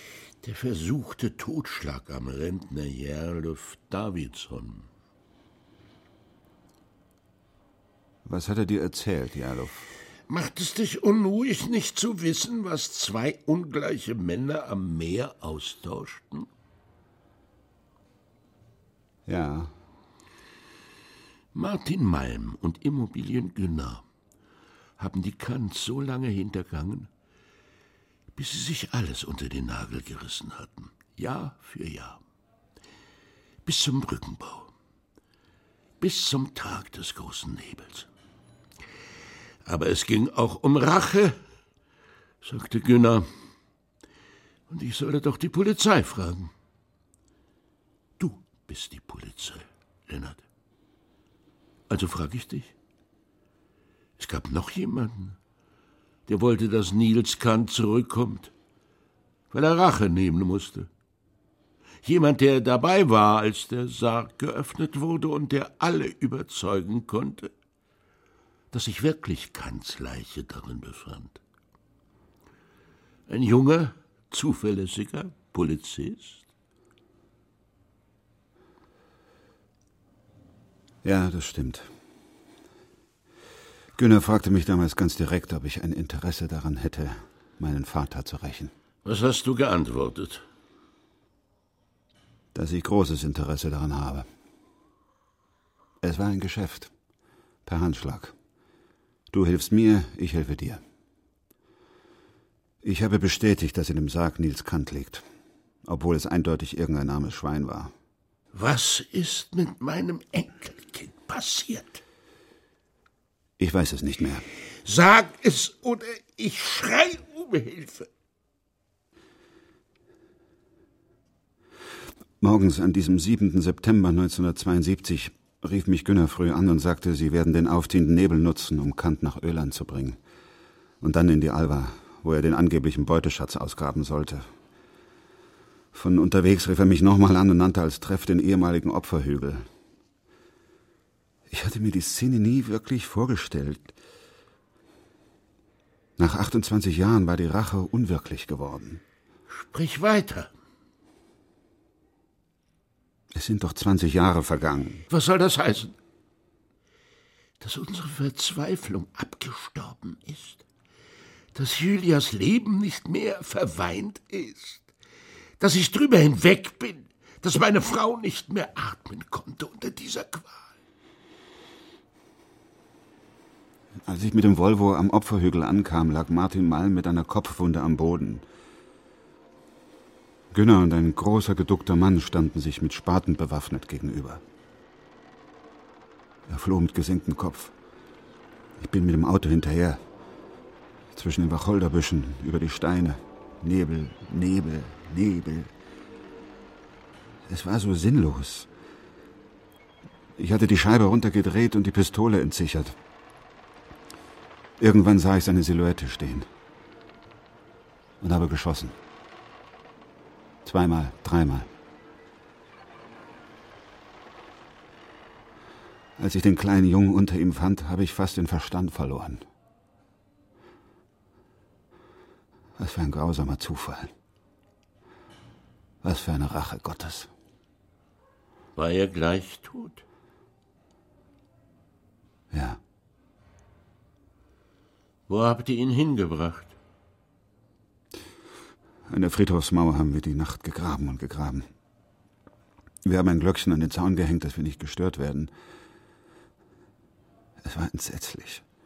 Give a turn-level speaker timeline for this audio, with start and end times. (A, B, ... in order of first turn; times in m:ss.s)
0:00.4-0:04.9 A
0:08.2-0:09.9 B
0:10.3-0:16.5 A
0:19.3-0:19.7 B
0:21.6-0:24.0 A
0:25.0-0:27.1 A
0:28.4-0:32.2 A
0:33.6-0:34.7 A
0:36.0-0:38.1 A
0:39.6-0:41.4 A
0:42.4-0:43.3 A
0:44.7-0:46.5 A
0:48.2-0:50.4 A
0:51.9-0:52.7 A
0:54.2-0:55.4 A
0:56.3-0:58.5 A
0:59.5-1:00.9 A
1:02.0-1:07.5 A
1:08.7-1:11.4 A
1:13.3-1:16.4 A
1:21.0-1:21.9 B
1:24.0-1:28.7 B
1:29.0-1:30.4 A
1:32.5-1:34.3 B
1:36.0-1:36.9 B
1:37.7-1:38.3 B
1:39.3-1:40.8 B
1:42.8-1:45.2 B
1:45.8-1:47.9 B
1:48.5-1:52.0 A
1:53.6-1:54.4 B
1:54.8-1:58.1 A
2:02.4-2:10.2 B
2:11.0-2:14.5 B
2:15.9-2:19.7 B
2:21.5-2:23.9 B
2:26.2-2:29.0 B
2:29.5-2:30.5 A
2:33.3-2:35.0 B
2:35.1-2:36.0 A
2:37.6-2:40.6 A
2:41.6-2:44.9 A
2:45.6-2:50.7 A
2:54.0-2:58.4 B
3:00.5-3:04.4 B
3:06.5-3:07.7 B
3:08.8-3:10.0 B
3:11.1-3:15.7 B
3:17.5-3:18.7 B
3:20.4-3:23.0 B
3:24.8-3:26.5 B
3:28.2-3:29.0 B
3:30.6-3:31.7 B
3:36.2-3:39.4 B
3:42.8-3:44.1 B
3:46.0-3:47.3 B
3:48.8-3:50.0 A
3:52.5-3:52.8 B
3:55.3-3:56.8 A
3:59.1-4:01.7 B
4:03.0-4:05.5 B
4:07.6-4:08.6 B